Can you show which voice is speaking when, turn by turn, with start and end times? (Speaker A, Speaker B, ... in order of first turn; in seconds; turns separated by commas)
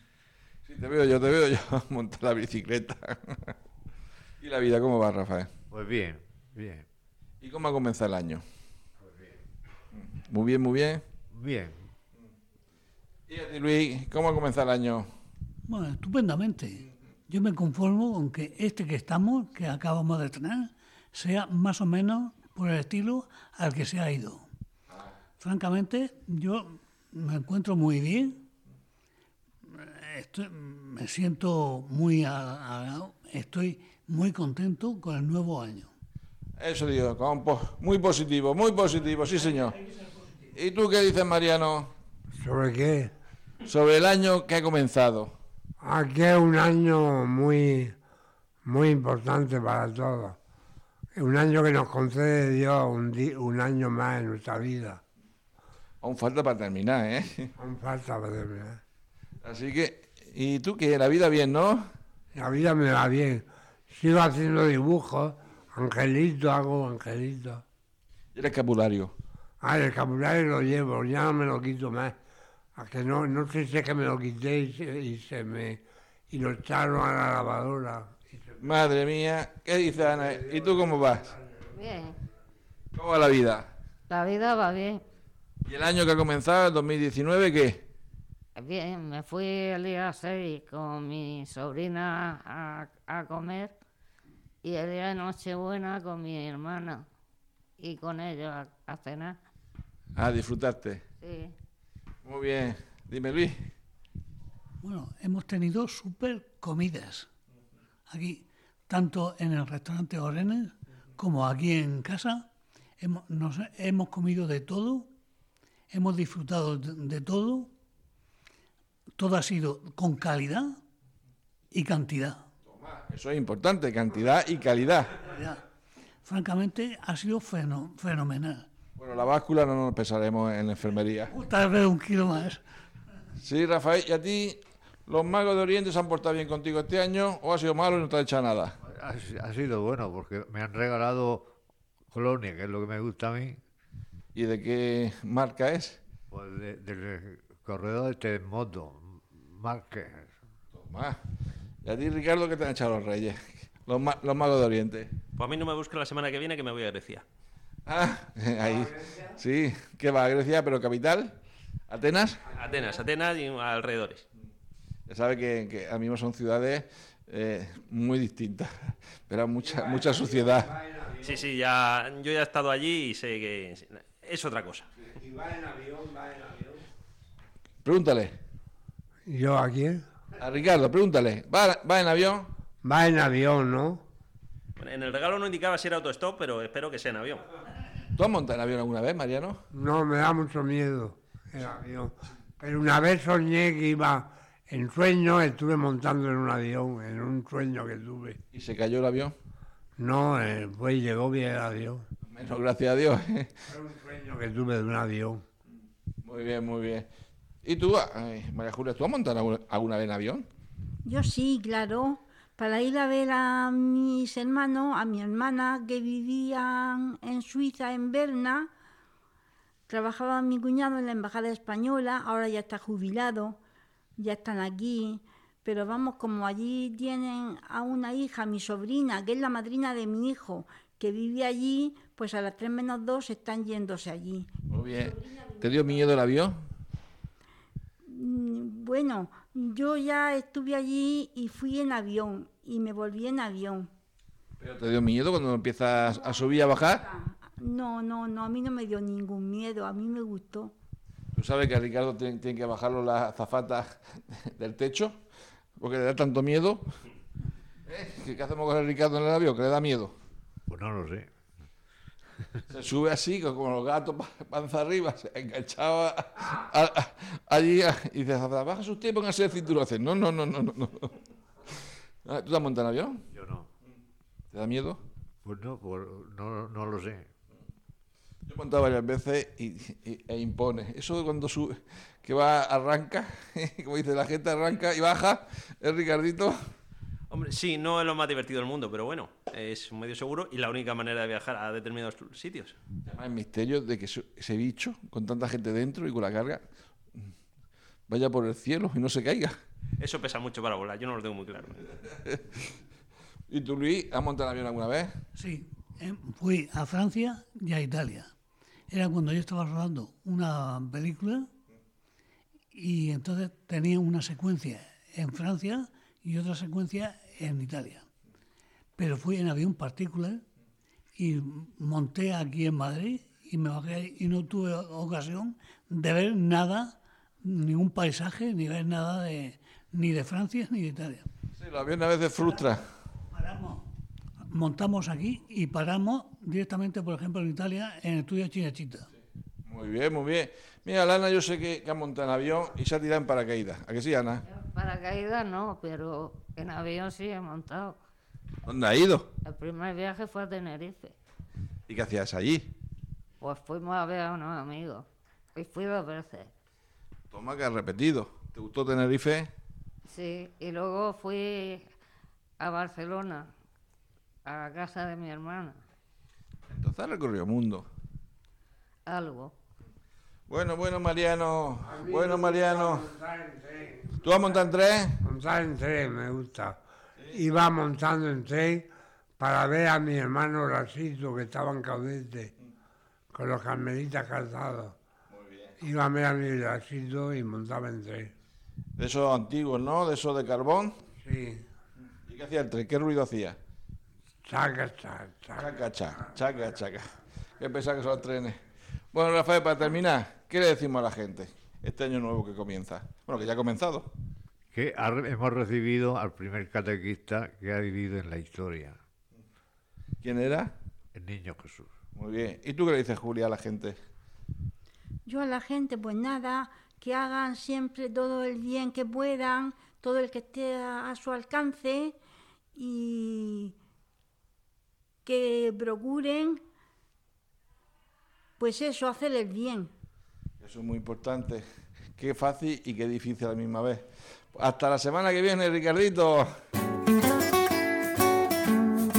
Speaker A: 0.7-3.5, Speaker A: 4.4-5.5, Speaker B: 5.7-6.9, Speaker A: 7.4-8.4, Speaker B: 9.1-9.3, Speaker A: 10.1-11.0, Speaker B: 11.3-11.8, Speaker A: 13.3-15.1, Speaker C: 15.7-24.4, Speaker C: 25.4-28.4, Speaker C: 29.8-35.9, Speaker A: 36.6-39.8, Speaker A: 40.5-41.9, Speaker D: 42.4-43.1, Speaker A: 43.6-45.3, Speaker D: 45.8-48.0, Speaker D: 48.6-50.4, Speaker D: 51.1-55.0, Speaker A: 56.0-57.5, Speaker D: 57.6-58.8, Speaker A: 59.4-61.9, Speaker D: 62.3-67.6, Speaker A: 68.3-69.1, Speaker D: 69.6-72.2, Speaker D: 72.8-78.7, Speaker A: 78.6-81.3, Speaker D: 80.0-81.8, Speaker E: 81.8-82.2, Speaker A: 82.9-83.7, Speaker E: 84.1-85.0, Speaker A: 85.7-87.8, Speaker E: 88.6-93.8, Speaker E: 94.6-97.1, Speaker E: 97.8-99.4, Speaker A: 100.2-101.0, Speaker E: 101.2-101.5, Speaker A: 102.2-103.6, Speaker C: 104.8-107.3, Speaker C: 108.1-112.4, Speaker C: 113.0-115.1, Speaker C: 115.9-117.7, Speaker C: 119.2-120.7, Speaker C: 121.7-122.4, Speaker A: 122.7-125.2, Speaker C: 125.3-125.6, Speaker C: 126.2-128.7, Speaker A: 129.0-131.3, Speaker C: 131.3-132.6, Speaker A: 133.4-138.7, Speaker B: 138.8-141.5, Speaker B: 142.1-143.6, Speaker A: 144.3-146.0, Speaker B: 146.3-150.3, Speaker A: 150.7-151.2, Speaker A: 151.8-155.1, Speaker F: 155.3-157.2, Speaker A: 157.8-161.4, Speaker D: 158.6-159.3, Speaker A: 161.9-162.4, Speaker D: 162.5-163.0, Speaker F: 162.5-164.2, Speaker A: 165.1-168.7, Speaker A: 169.3-170.7, Speaker D: 169.6-171.4, Speaker F: 171.2-174.8, Speaker D: 175.1-176.8, Speaker A: 177.8-178.3, Speaker D: 179.3-180.0, Speaker A: 180.4-182.5, Speaker D: 182.8-184.0, Speaker F: 184.8-187.4, Speaker A: 188.2-189.6, Speaker D: 189.7-198.4, Speaker A: 198.5-199.3, Speaker D: 200.0-202.0, Speaker A: 202.3-203.5, Speaker D: 203.7-205.4, Speaker A: 206.2-207.1, Speaker A: 207.6-210.4, Speaker G: 211.0-218.7, Speaker G: 219.9-223.6, Speaker G: 224.2-234.5, Speaker A: 234.7-236.6, Speaker G: 238.1-243.9, Speaker A: 244.6-247.0, Speaker G: 246.0-250.7, Speaker A: 251.3-253.9, Speaker A: 254.5-255.2, Speaker A: 255.8-256.9, Speaker A: 257.9-260.1, Speaker B: 260.7-261.3, Speaker A: 262.7-271.1, Speaker A: 272.2-273.2, Speaker B: 273.3-273.7, Speaker A: 274.5-275.0, Speaker B: 275.4-277.3, Speaker A: 278.5-286.5, Speaker F: 287.3-292.8, Speaker A: 293.0-296.6, Speaker A: 298.1-299.6, Speaker F: 300.0-301.9, Speaker A: 302.3-302.6, Speaker A: 303.5-305.1, Speaker C: 305.4-308.3, Speaker C: 308.9-311.5, Speaker C: 312.7-318.1, Speaker C: 319.0-320.4, Speaker C: 321.1-326.9, Speaker C: 327.4-331.2, Speaker A: 331.6-332.8, Speaker C: 333.3-333.8, Speaker C: 334.5-339.1, Speaker A: 339.6-344.4, Speaker E: 344.4-348.0, Speaker A: 348.7-349.3, Speaker E: 349.4-351.1, Speaker A: 351.9-352.7, Speaker E: 353.4-356.5, Speaker A: 357.3-359.5, Speaker E: 360.1-361.9, Speaker E: 362.6-363.5, Speaker E: 364.4-365.8, Speaker A: 366.7-367.9, Speaker E: 369.1-369.5, Speaker A: 370.5-373.1, Speaker D: 371.9-374.2, Speaker A: 374.2-375.2, Speaker D: 375.2-376.8, Speaker D: 377.3-378.9, Speaker D: 379.4-382.5, Speaker D: 383.3-385.0, Speaker A: 385.3-385.8, Speaker D: 385.8-388.3, Speaker A: 389.0-391.0, Speaker D: 391.2-391.6, Speaker A: 392.2-393.6, Speaker D: 394.5-395.7, Speaker A: 395.6-398.6, Speaker A: 399.1-404.1, Speaker B: 404.7-409.0, Speaker A: 410.2-410.7, Speaker B: 411.1-411.9, Speaker A: 412.1-414.0, Speaker G: 415.2-422.2, Speaker G: 422.8-423.8, Speaker G: 425.2-426.6, Speaker G: 428.6-429.9, Speaker A: 430.6-431.6, Speaker A: 432.2-436.5